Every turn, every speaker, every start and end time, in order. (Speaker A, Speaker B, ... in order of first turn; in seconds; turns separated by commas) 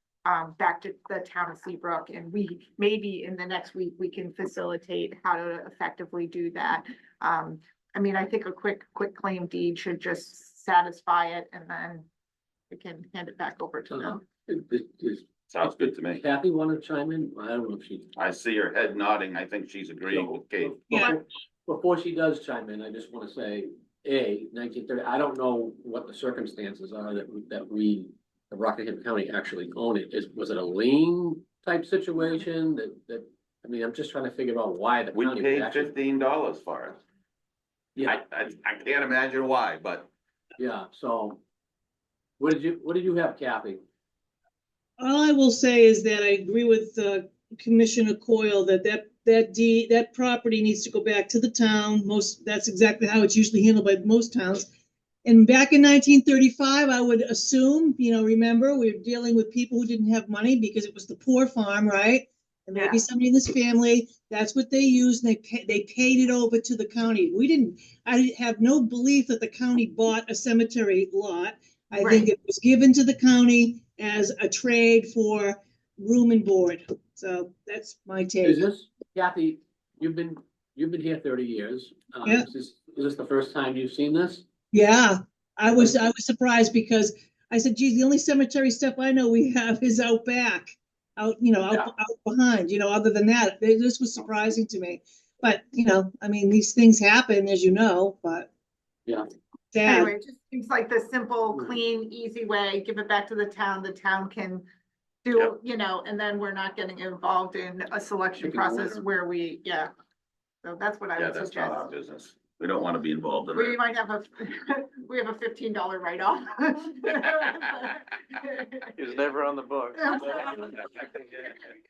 Speaker A: 0.2-12.1, Speaker A: 12.7-14.2, Speaker B: 13.9-18.1, Speaker C: 15.5-16.2, Speaker C: 18.1-20.8, Speaker B: 20.1-35.9, Speaker D: 20.9-21.2, Speaker C: 35.1-37.0, Speaker C: 38.0-40.1, Speaker B: 40.6-41.4, Speaker B: 42.4-43.8, Speaker D: 45.0-54.7, Speaker D: 55.2-78.6, Speaker A: 62.7-63.0, Speaker A: 72.0-72.3, Speaker B: 78.4-84.5, Speaker D: 84.7-98.5, Speaker D: 99.7-100.1, Speaker A: 99.8-104.6, Speaker A: 105.2-109.9, Speaker B: 108.4-109.0, Speaker A: 110.6-111.9, Speaker C: 111.2-113.8, Speaker A: 113.5-118.9, Speaker E: 119.0-121.6, Speaker A: 120.0-120.8